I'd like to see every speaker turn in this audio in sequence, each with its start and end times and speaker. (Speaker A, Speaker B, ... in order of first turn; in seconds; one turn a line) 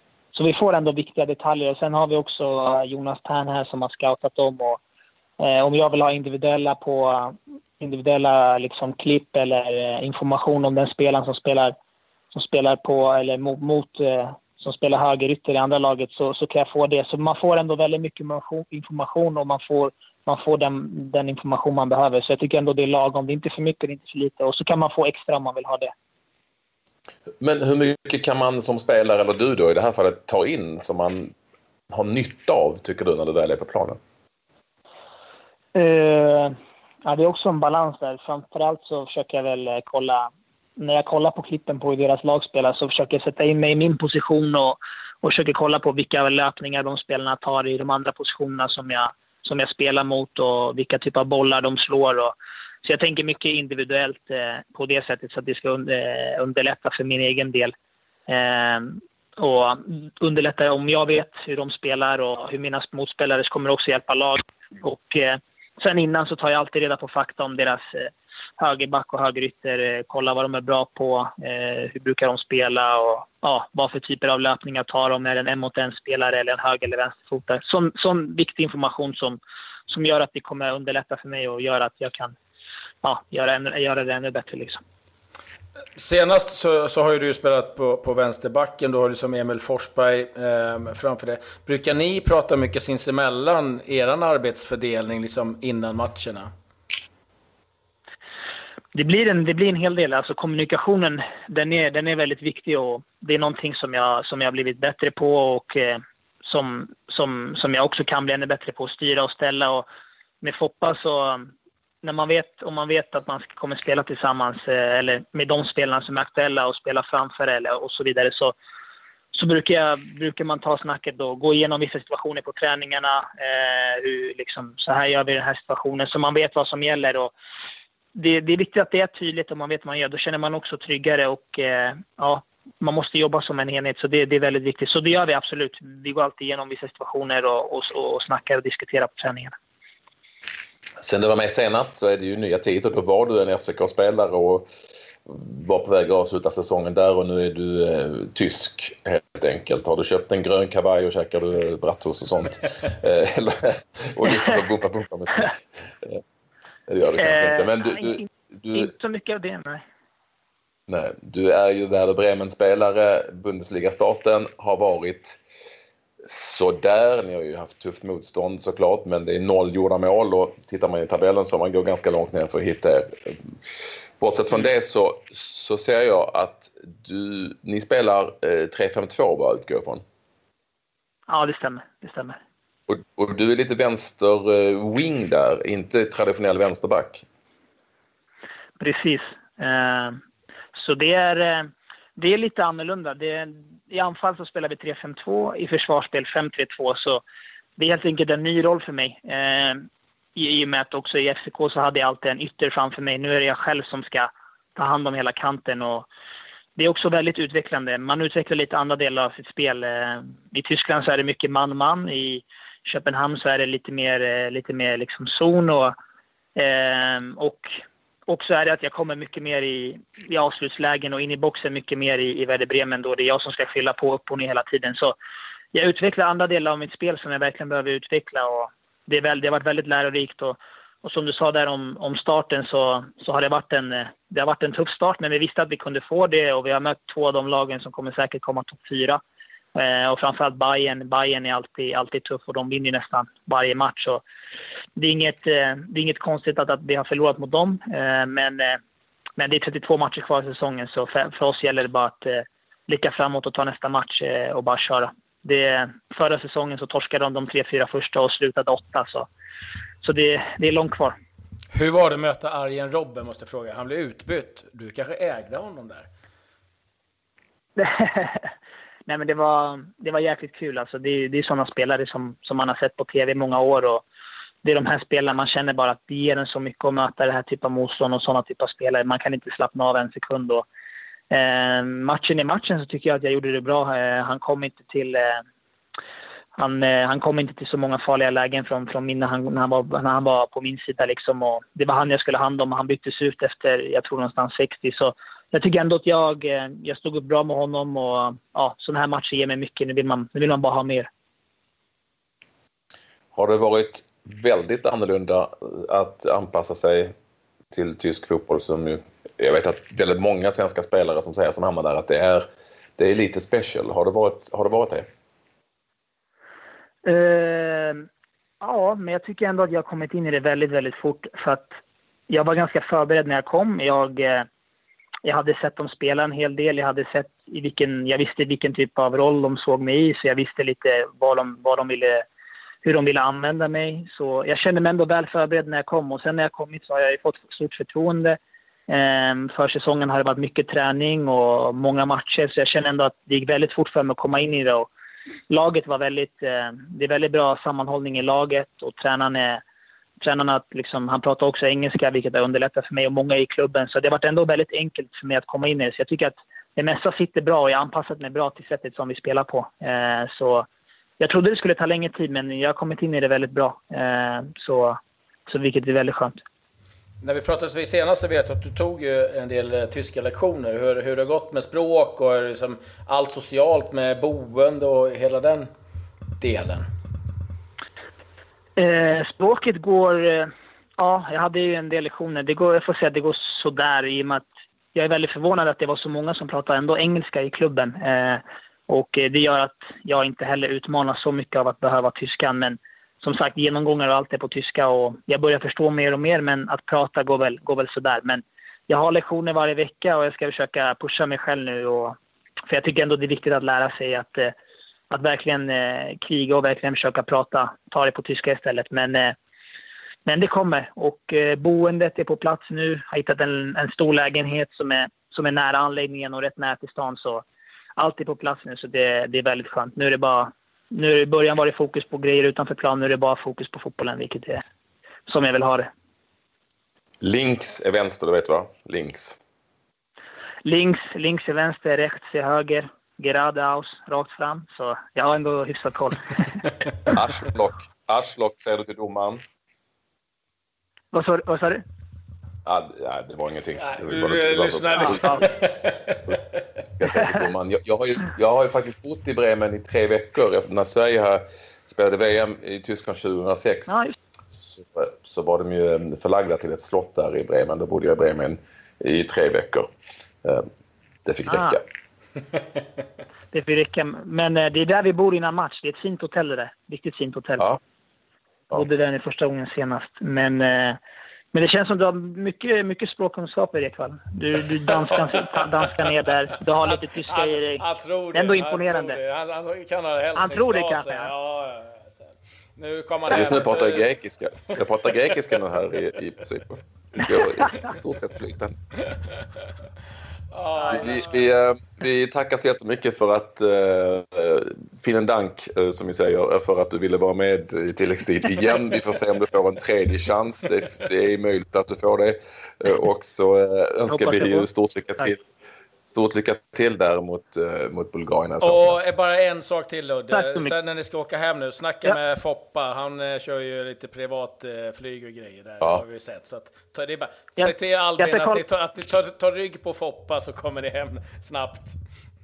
Speaker A: 0.3-4.8
Speaker A: 5.4-11.7
Speaker A: 12.3-25.9
Speaker B: 27.4-31.3
Speaker B: 31.9-34.0
Speaker A: 35.8-57.7
Speaker A: 58.3-82.4
Speaker A: 83.0-84.8
Speaker C: 86.0-96.5
Speaker A: 98.9-109.9
Speaker A: 110.4-111.5
Speaker A: 112.0-118.5
Speaker A: 119.3-127.3
Speaker A: 128.2-139.5
Speaker B: 141.0-144.7
Speaker B: 145.3-156.2
Speaker B: 156.9-158.9
Speaker A: 157.2-159.8
Speaker B: 160.9-165.4
Speaker B: 166.2-173.4
Speaker B: 174.2-180.0
Speaker A: 181.3-182.4
Speaker B: 182.9-187.2
Speaker A: 188.8-190.2
Speaker A: 190.7-197.2
Speaker A: 197.8-206.1
Speaker A: 206.8-215.9
Speaker A: 216.6-225.2
Speaker A: 225.7-239.2
Speaker A: 239.8-244.2
Speaker A: 245.0-248.8
Speaker A: 249.4-259.3
Speaker A: 260.0-261.2
Speaker C: 261.7-266.1
Speaker A: 267.8-268.5
Speaker A: 269.1-274.1
Speaker A: 274.6-280.6
Speaker A: 281.3-285.4
Speaker A: 286.6-301.1
Speaker B: 303.4-307.1
Speaker B: 307.7-312.5
Speaker B: 313.0-315.1
Speaker A: 317.1-318.1
Speaker A: 318.6-321.8
Speaker A: 322.3-324.5
Speaker A: 325.2-332.2
Speaker A: 332.8-344.9
Speaker A: 345.5-349.6
Speaker A: 350.2-360.7
Speaker A: 361.2-366.4
Speaker C: 367.2-375.7
Speaker C: 376.4-376.9
Speaker A: 378.8-402.2
Speaker A: 402.7-404.6
Speaker A: 405.1-409.4
Speaker A: 410.3-417.4
Speaker A: 418.0-424.6
Speaker A: 425.3-425.9
Speaker B: 427.2-429.4
Speaker A: 430.6-436.5
Speaker B: 437.1-439.4
Speaker A: 441.1-441.8
Speaker B: 442.7-445.4
Speaker C: 443.8-446.6
Speaker A: 445.0-445.4
Speaker B: 447.0-454.0
Speaker A: 453.9-454.1
Speaker B: 454.5-459.9
Speaker B: 461.3-461.8
Speaker A: 461.5-461.8
Speaker A: 463.5-467.7
Speaker A: 468.7-471.0
Speaker A: 471.5-479.2
Speaker C: 475.6-476.0
Speaker C: 476.9-484.1
Speaker A: 480.4-481.3
Speaker B: 483.3-488.7
Speaker C: 490.5-491.3
Speaker A: 490.9-491.2
Speaker B: 490.9-505.4
Speaker A: 504.1-504.7
Speaker B: 506.1-509.0
Speaker C: 508.6-522.0
Speaker A: 510.3-510.8
Speaker A: 517.6-518.6